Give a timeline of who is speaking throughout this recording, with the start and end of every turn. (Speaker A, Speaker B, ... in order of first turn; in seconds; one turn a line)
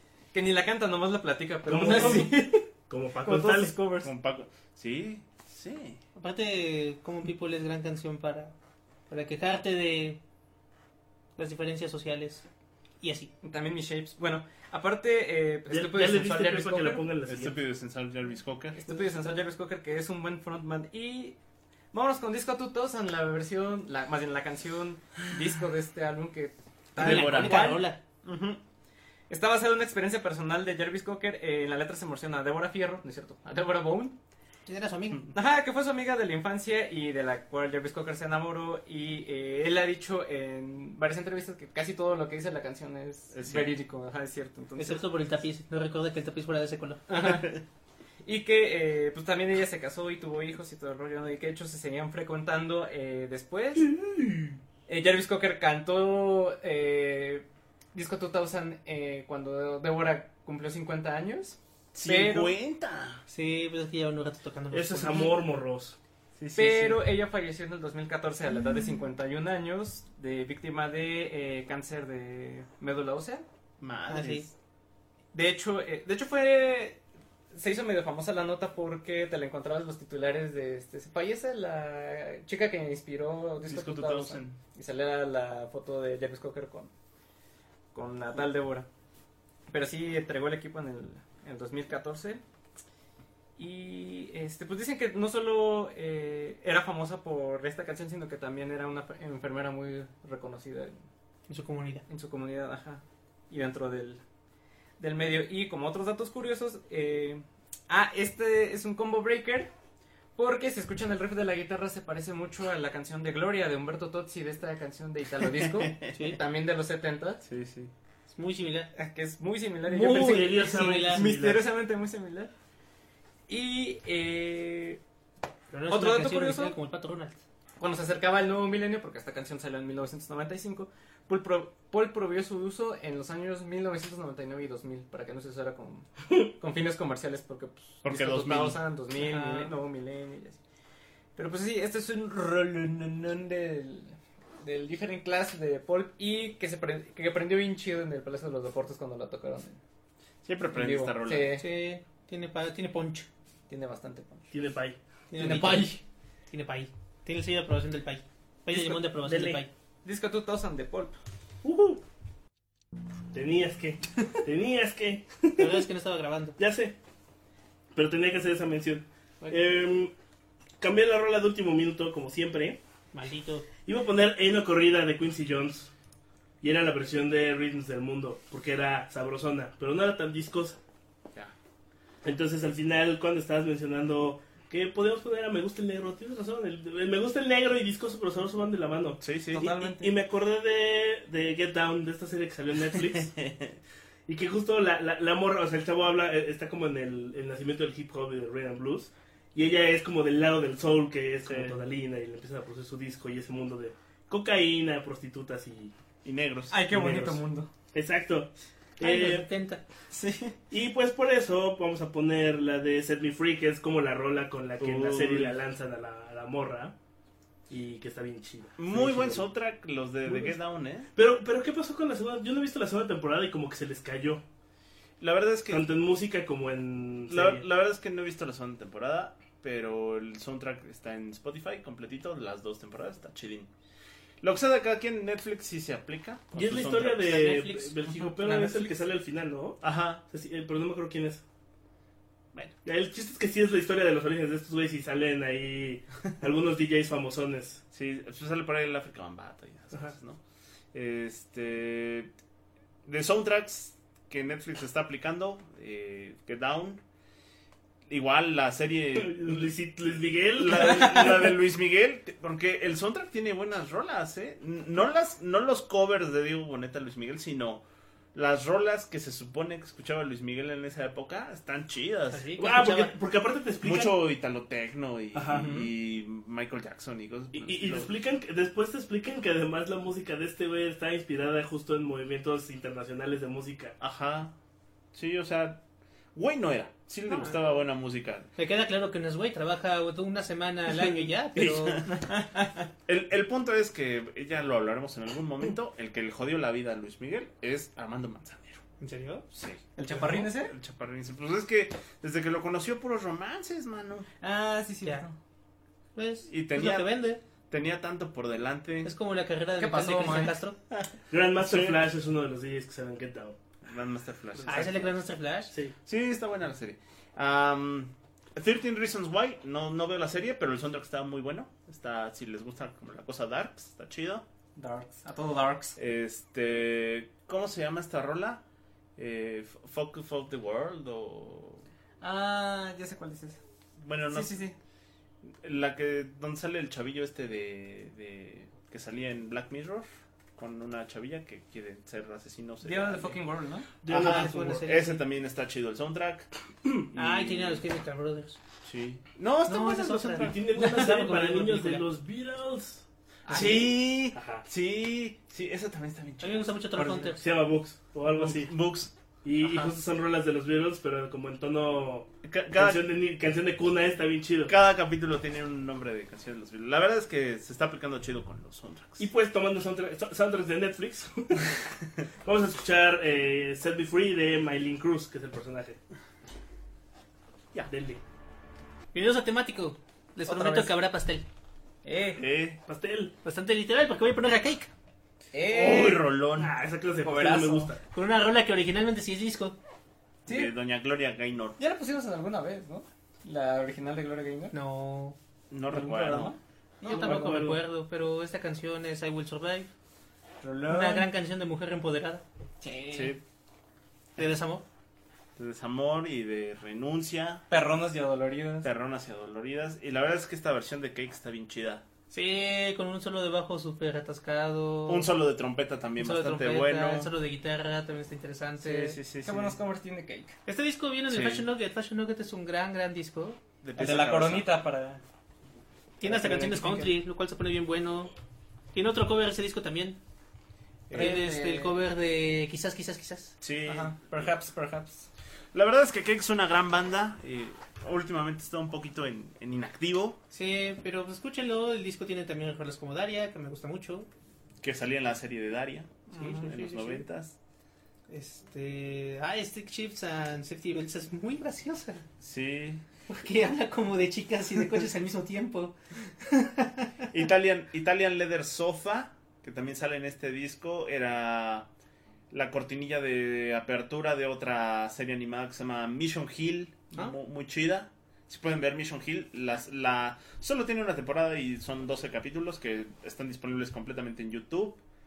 Speaker A: 0.3-2.6
Speaker B: 1.7-3.7
Speaker C: 1.9-2.2
Speaker A: 3.2-4.1
Speaker D: 4.0-6.0
Speaker C: 6.2-8.5
Speaker C: 9.1-10.2
Speaker C: 11.4-12.5
Speaker C: 13.0-13.3
Speaker A: 13.4-17.1
Speaker B: 15.7-17.6
Speaker D: 17.2-18.8
Speaker A: 18.8-21.4
Speaker A: 21.9-27.9
Speaker D: 27.0-27.7
Speaker C: 27.0-28.0
Speaker D: 28.2-28.6
Speaker A: 29.3-34.2
Speaker C: 34.7-35.3
Speaker A: 35.3-45.0
Speaker D: 43.3-43.7
Speaker C: 44.8-47.0
Speaker A: 47.1-47.6
Speaker D: 47.2-47.6
Speaker A: 48.2-53.9
Speaker B: 53.9-54.6
Speaker A: 54.9-62.6
Speaker D: 61.9-63.2
Speaker C: 63.3-65.4
Speaker B: 64.7-66.0
Speaker D: 66.4-67.0
Speaker A: 66.5-73.5
Speaker D: 73.8-74.5
Speaker C: 74.1-74.5
Speaker A: 75.3-86.9
Speaker D: 83.7-84.6
Speaker A: 87.9-88.9
Speaker A: 89.7-92.4
Speaker A: 93.6-101.0
Speaker C: 101.5-102.0
Speaker A: 102.1-104.2
Speaker A: 105.0-109.7
Speaker A: 110.4-117.4
Speaker D: 115.4-116.2
Speaker D: 117.4-117.9
Speaker C: 118.3-118.9
Speaker A: 119.0-122.5
Speaker C: 119.9-121.3
Speaker B: 120.0-121.7
Speaker A: 123.5-125.0
Speaker C: 125.7-127.4
Speaker A: 125.9-126.8
Speaker A: 127.8-140.6
Speaker D: 138.0-138.8
Speaker C: 139.2-139.7
Speaker A: 141.4-149.8
Speaker D: 150.4-151.6
Speaker A: 150.7-151.7
Speaker C: 151.6-153.3
Speaker A: 153.7-154.5
Speaker B: 154.5-155.0
Speaker C: 155.3-159.7
Speaker A: 155.3-156.0
Speaker B: 158.7-159.6
Speaker A: 160.1-161.2
Speaker B: 161.6-162.0
Speaker B: 163.3-165.9
Speaker C: 165.6-166.6
Speaker B: 166.6-167.0
Speaker B: 167.9-170.1
Speaker B: 170.8-172.8
Speaker C: 173.1-173.7
Speaker B: 173.8-175.9
Speaker B: 176.6-180.8
Speaker B: 182.2-193.3
Speaker D: 189.2-189.7
Speaker A: 189.5-190.2
Speaker D: 192.9-193.8
Speaker B: 194.3-205.9
Speaker D: 206.2-207.1
Speaker A: 206.7-207.7
Speaker B: 206.9-207.4
Speaker B: 207.9-209.5
Speaker C: 209.0-209.8
Speaker A: 210.1-210.6
Speaker B: 210.7-216.9
Speaker D: 214.8-215.6
Speaker B: 217.7-219.5
Speaker D: 218.8-221.1
Speaker B: 220.3-220.6
Speaker B: 221.1-224.4
Speaker D: 225.2-225.9
Speaker B: 225.7-227.6
Speaker D: 227.3-233.7
Speaker D: 234.4-237.5
Speaker B: 236.5-241.4
Speaker C: 237.2-238.9
Speaker D: 239.8-240.2
Speaker B: 242.8-247.8
Speaker D: 247.9-250.4
Speaker D: 250.9-252.3
Speaker D: 253.1-257.0
Speaker D: 258.1-259.7
Speaker B: 259.1-261.6
Speaker D: 260.6-272.5
Speaker C: 272.3-273.2
Speaker B: 272.6-274.1
Speaker D: 273.8-278.1
Speaker B: 275.3-275.7
Speaker A: 275.5-275.9
Speaker B: 277.5-283.9
Speaker D: 284.0-284.5
Speaker D: 285.1-285.8
Speaker D: 286.4-288.5
Speaker C: 288.6-292.1
Speaker D: 291.6-292.1
Speaker A: 292.1-292.8
Speaker D: 293.1-298.8
Speaker C: 299.0-299.5
Speaker D: 299.5-304.3
Speaker A: 300.0-300.7
Speaker A: 304.4-305.4
Speaker C: 306.1-307.4
Speaker D: 306.5-307.1
Speaker D: 307.7-309.1
Speaker C: 309.0-310.8
Speaker A: 309.8-310.6
Speaker B: 311.3-313.6
Speaker D: 311.6-312.0
Speaker D: 313.8-315.1
Speaker C: 314.6-315.7
Speaker D: 316.1-324.4
Speaker A: 324.8-326.0
Speaker D: 326.0-328.6
Speaker D: 329.2-331.9
Speaker A: 332.2-333.6
Speaker D: 334.0-334.6
Speaker A: 334.3-334.8
Speaker D: 335.6-343.4
Speaker A: 342.8-343.9
Speaker B: 344.0-344.9
Speaker D: 344.1-347.8
Speaker C: 344.1-345.2
Speaker C: 347.1-348.6
Speaker D: 348.8-350.6
Speaker C: 349.7-352.1
Speaker B: 350.4-354.6
Speaker A: 353.4-353.9
Speaker D: 353.5-357.3
Speaker C: 356.4-357.4
Speaker B: 357.4-358.7
Speaker D: 358.3-359.1
Speaker B: 359.4-364.7
Speaker D: 362.4-363.1
Speaker D: 364.7-369.3
Speaker B: 369.2-371.8
Speaker B: 372.4-376.0
Speaker B: 377.9-378.2
Speaker C: 379.1-381.5
Speaker A: 380.4-380.9
Speaker A: 382.0-382.4
Speaker D: 382.4-382.8
Speaker B: 382.9-383.3
Speaker C: 383.4-384.9
Speaker A: 385.5-386.2
Speaker D: 385.7-386.7
Speaker B: 385.8-388.0
Speaker A: 387.2-387.9
Speaker C: 388.1-389.8
Speaker A: 390.5-390.7
Speaker D: 390.5-391.8
Speaker A: 391.8-394.8
Speaker C: 394.7-395.4
Speaker D: 395.7-396.6
Speaker A: 395.9-397.6
Speaker C: 397.0-399.9
Speaker B: 397.1-397.8
Speaker A: 400.6-401.3
Speaker C: 400.9-402.4
Speaker A: 402.8-403.4
Speaker D: 403.1-403.4
Speaker C: 404.4-404.8
Speaker D: 405.6-407.6
Speaker A: 407.7-408.9
Speaker D: 408.8-412.0
Speaker C: 412.3-415.3
Speaker D: 415.1-417.3
Speaker C: 416.2-419.2
Speaker A: 418.8-420.6
Speaker D: 419.0-419.8
Speaker C: 420.7-423.6
Speaker D: 421.3-421.7
Speaker D: 423.8-424.7
Speaker A: 424.0-425.2
Speaker C: 426.2-428.3
Speaker A: 426.2-427.1
Speaker C: 428.9-430.2
Speaker D: 431.1-431.4
Speaker A: 431.1-431.9
Speaker C: 431.1-433.6
Speaker D: 433.6-434.5
Speaker A: 433.9-435.3
Speaker D: 435.7-440.4
Speaker C: 440.5-444.3
Speaker D: 444.8-447.6
Speaker A: 446.3-446.7
Speaker C: 446.3-447.2
Speaker C: 448.3-452.3
Speaker D: 452.4-453.0
Speaker C: 453.3-457.3
Speaker D: 457.3-461.9
Speaker D: 462.5-475.0